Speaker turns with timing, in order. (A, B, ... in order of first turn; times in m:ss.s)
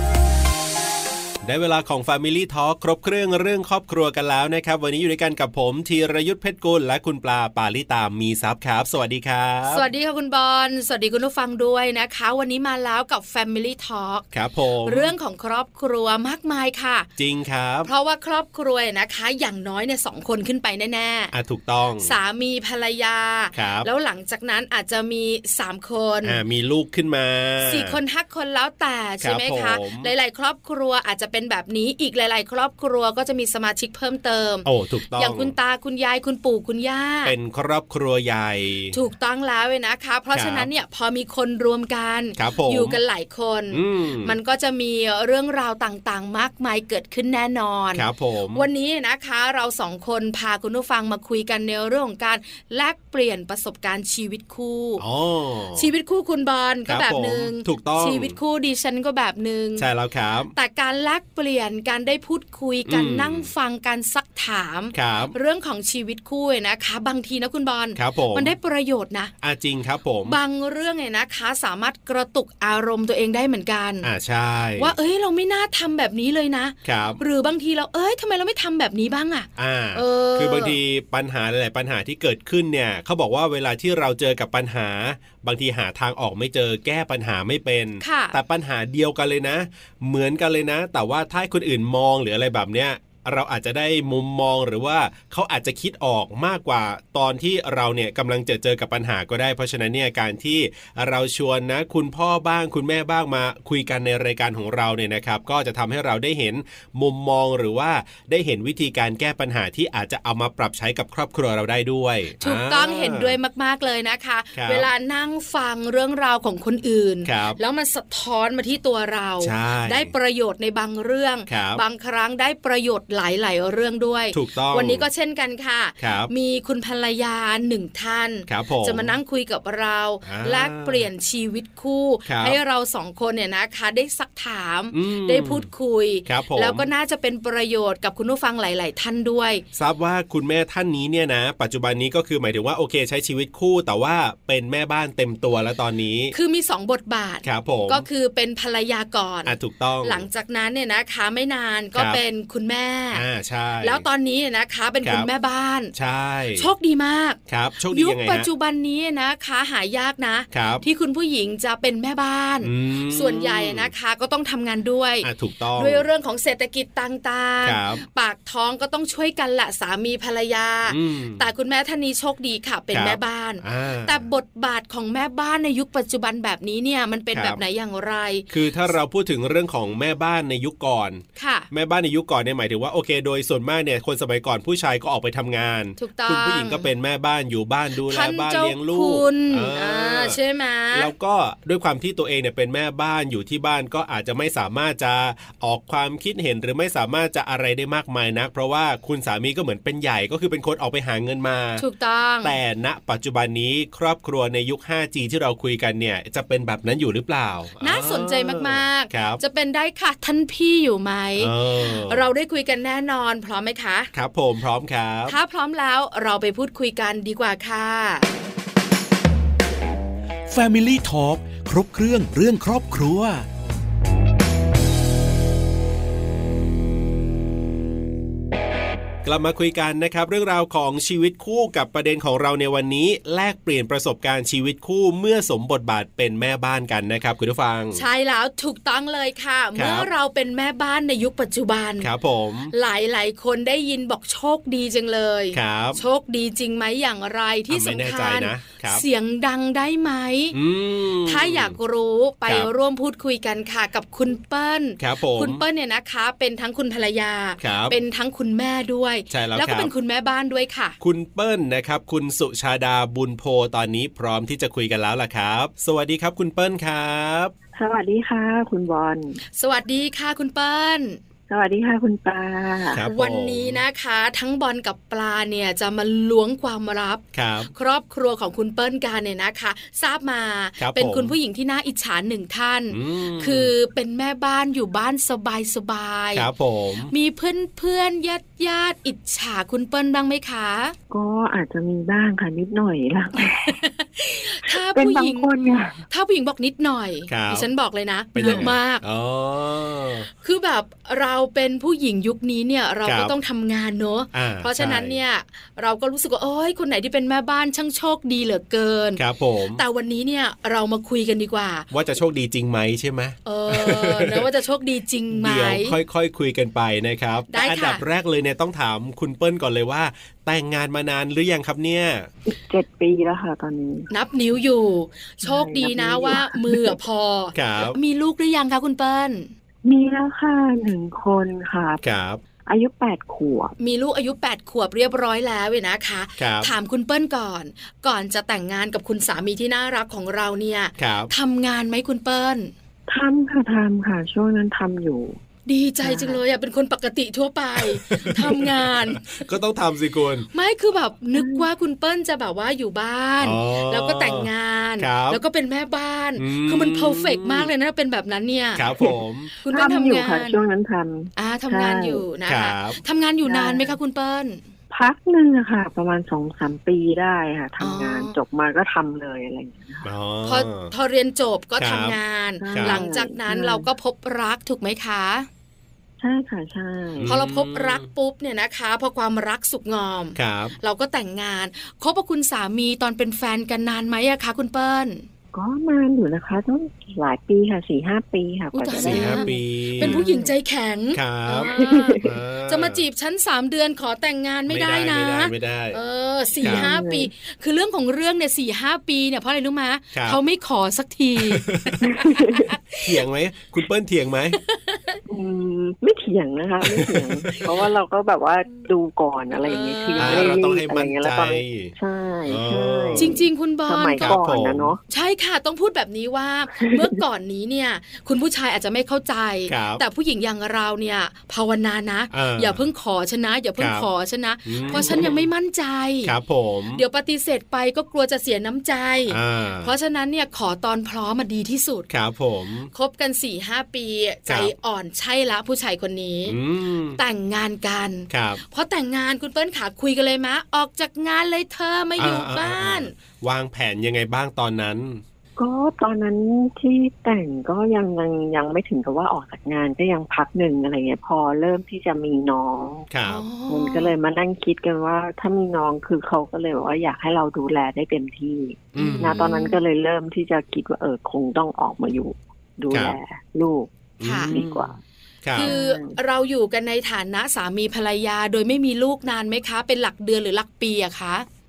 0:01.4-0:09.9 A
0:09.7-0:14.2 B
0:14.3-0:15.1 A
0:14.8-0:17.1 B
0:17.2-0:17.9 A
0:17.8-0:21.3 B
0:21.3-0:22.1 A
0:22.0-0:26.4 B
0:23.5-0:23.9 A
0:26.2-0:28.0 A
0:27.6-0:37.3 B
0:29.2-0:30.1 A
0:34.6-0:35.5 A
0:37.2-0:39.0 A
0:38.9-0:55.0 B
0:40.3-0:40.7 A
0:42.4-0:43.0 A
0:43.7-0:44.4 A
0:47.9-0:48.7 A
0:55.0-0:55.9 A
0:55.8-0:59.9 B
0:56.9-0:58.4 A
0:59.8-1:00.5 A
1:00.5-1:09.3 B
1:02.9-1:03.5 A
1:04.9-1:05.3 A
1:08.0-1:08.5 A
1:09.4-1:10.4 A
1:10.2-1:14.1 B
1:14.0-1:14.9 A
1:14.8-1:20.8 B
1:16.8-1:17.2 A
1:19.6-1:53.4 A
1:28.0-1:28.4 B
1:52.4-2:19.6 B
1:54.5-1:54.9 A
1:57.2-1:57.6 A
1:59.4-2:00.1 A
2:01.5-2:01.8 A
2:04.3-2:05.0 A
2:06.0-2:06.3 A
2:08.5-2:09.2 A
2:10.2-2:11.1 A
2:12.2-2:12.6 A
2:14.9-2:15.7 A
2:16.2-2:16.9 A
2:19.7-2:26.3 A
2:26.3-2:33.2 B
2:27.4-2:28.0 A
2:29.4-2:30.3 A
2:32.0-2:32.2 A
2:33.1-2:34.0 A
2:33.8-2:35.9 B
2:35.9-2:36.7 A
2:36.5-2:58.5 B
2:37.5-2:38.5 A
2:40.5-2:40.8 A
2:42.6-2:43.9 A
2:45.2-2:46.0 A
2:47.6-2:48.0 A
2:50.9-2:51.5 A
2:52.9-2:54.2 A
2:57.3-2:57.6 A
2:58.5-3:10.4 A
3:01.4-3:01.7 B
3:06.0-3:06.9 B
3:08.0-3:11.1 B
3:10.9-3:21.8 A
3:21.8-3:22.6 B
3:22.4-3:29.4 A
3:27.8-3:34.1 B
3:31.4-3:32.2 A
3:34.1-3:35.3 A
3:35.3-3:38.3 B
3:40.5-3:43.4 C
3:49.2-3:58.0 A
3:57.9-4:02.1 B
3:59.8-4:00.1 A
4:02.0-4:02.7 A
4:02.7-4:10.6 B
4:05.5-4:06.0 A
4:07.7-4:09.0 A
4:10.5-4:11.8 A
4:11.2-4:21.0 B
4:15.0-4:15.6 A
4:17.6-4:18.0 A
4:19.3-4:19.9 A
4:21.0-4:27.5 A
4:27.7-4:29.4 D
4:29.6-4:31.2 B
4:31.5-4:33.0 D
4:32.9-4:33.8 A
4:33.0-4:46.5 B
4:37.3-4:37.7 A
4:40.8-4:41.3 A
4:42.9-4:43.7 A
4:46.3-4:47.1 A
4:47.1-4:50.9 B
4:51.1-4:53.8 D
4:53.6-4:55.5 B
4:54.7-4:56.0 D
4:56.1-4:59.0 B
4:57.3-4:57.7 A
4:58.3-5:00.3 A
4:58.4-4:58.7 D
5:00.4-5:09.2 B
5:03.0-5:03.3 A
5:04.3-5:05.2 A
5:09.2-5:09.8 A
5:09.7-5:11.9 B
5:11.9-5:14.5 A
5:13.4-5:16.0 B
5:15.3-5:22.3 A
5:17.5-5:18.0 B
5:22.4-5:24.1 D
5:24.1-5:29.5 B
5:25.4-5:27.0 D
5:27.5-5:28.0 A
5:29.8-5:32.0 D
5:32.0-5:32.4 A
5:32.6-5:33.7 D
5:33.8-5:42.7 B
5:36.4-5:36.7 A
5:41.0-5:41.3 A
5:43.1-5:45.4 D
5:45.6-5:49.4 B
5:46.0-5:46.4 D
5:47.8-5:50.5 A
5:50.5-5:59.0 B
5:51.3-5:51.6 D
5:53.4-5:55.4 A
5:56.4-5:57.7 A
5:58.8-5:59.5 A
5:59.0-6:02.2 D
5:59.6-6:00.6 B
6:01.4-6:04.6 B
6:02.5-6:03.0 A
6:03.4-6:04.0 D
6:04.9-6:10.1 D
6:07.8-6:08.4 B
6:10.0-6:10.9 A
6:10.4-6:15.5 B
6:11.8-6:12.2 A
6:12.6-6:13.9 D
6:12.7-6:13.0 A
6:16.2-6:17.3 D
6:17.2-6:18.0 A
6:17.3-6:25.2 B
6:20.4-6:20.8 A
6:25.5-6:30.5 D
6:28.7-6:43.2 B
6:29.0-6:30.2 A
6:31.1-6:33.0 A
6:31.7-6:32.3 D
6:34.7-6:36.0 A
6:36.6-6:36.9 A
6:36.6-6:37.3 D
6:40.1-6:40.4 A
6:41.4-6:42.0 A
6:42.0-6:42.7 D
6:43.0-6:44.6 A
6:44.6-6:45.2 B
6:45.3-6:55.0 D
6:46.8-6:47.6 A
6:49.6-6:50.6 B
6:50.2-6:51.9 A
6:52.4-6:53.4 A
6:53.2-6:54.4 B
6:54.2-6:54.9 A
6:55.1-7:06.3 B
6:59.7-7:00.0 A
7:02.3-7:02.8 A
7:03.8-7:04.1 A
7:04.6-7:05.5 A
7:04.9-7:05.3 D
7:06.2-7:07.0 A
7:06.9-7:12.1 B
7:09.3-7:09.9 A
7:12.1-7:12.9 A
7:12.9-7:16.6 B
7:14.5-7:14.7 A
7:16.4-7:17.2 A
7:17.2-7:23.1 B
7:18.3-7:18.6 A
7:22.2-7:25.2 A
7:25.6-7:33.1 D
7:33.1-7:33.4 A
7:33.2-7:34.1 B
7:33.7-7:43.9 D
7:38.9-7:39.4 A
7:38.9-7:39.8 B
7:42.9-7:43.2 A
7:44.2-7:44.9 A
7:44.2-7:44.5 B
7:44.5-7:45.0 D
7:45.4-7:45.7 A
7:45.5-7:51.4 B
7:45.6-7:46.2 D